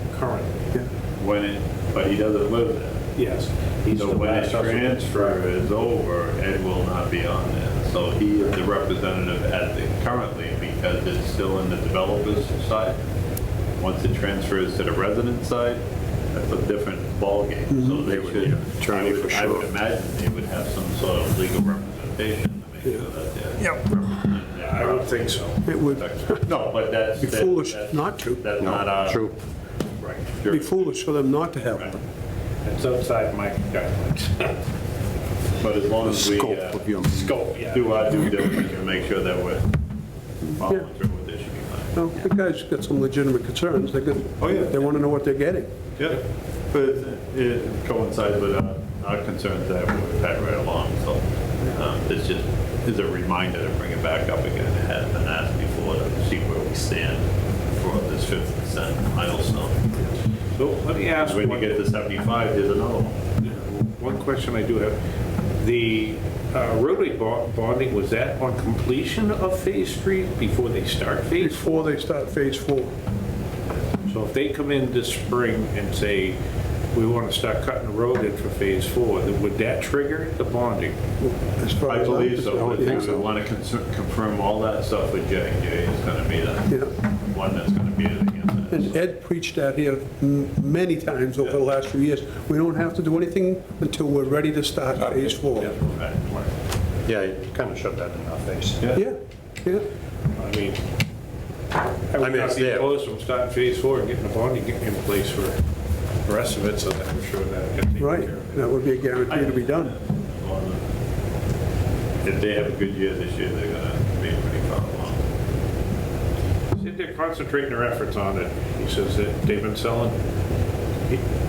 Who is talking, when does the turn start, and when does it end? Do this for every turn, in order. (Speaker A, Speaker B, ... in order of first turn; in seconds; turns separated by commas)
Speaker A: 0.1-0.6, Speaker B: 1.2-3.0, Speaker A: 3.1-5.4, Speaker B: 3.9-13.0, Speaker B: 13.8-29.3, Speaker C: 18.0-19.7, Speaker A: 24.6-26.1, Speaker D: 25.6-26.4, Speaker D: 27.2-28.4, Speaker C: 28.6-29.4, Speaker B: 30.3-30.8, Speaker D: 30.5-32.0, Speaker A: 32.6-34.6, Speaker B: 35.6-36.9, Speaker C: 36.0-37.3, Speaker A: 37.0-38.7, Speaker B: 37.7-39.8, Speaker B: 40.5-41.9, Speaker D: 41.9-45.7, Speaker B: 44.4-44.8, Speaker B: 46.0-60.0, Speaker A: 60.5-61.8, Speaker B: 61.2-63.3, Speaker A: 63.4-65.0, Speaker A: 65.6-71.9, Speaker D: 71.4-72.9, Speaker A: 74.0-76.3, Speaker A: 76.9-81.0, Speaker D: 81.2-83.3, Speaker B: 81.8-89.0, Speaker D: 88.7-95.8, Speaker A: 95.4-96.4, Speaker B: 95.9-96.2, Speaker C: 97.0-98.8, Speaker D: 98.9-99.8, Speaker A: 100.3-100.8, Speaker A: 102.1-105.6, Speaker C: 102.2-102.9, Speaker A: 106.2-108.7, Speaker D: 108.0-110.0, Speaker B: 109.3-110.8, Speaker B: 112.2-115.2, Speaker A: 116.7-120.2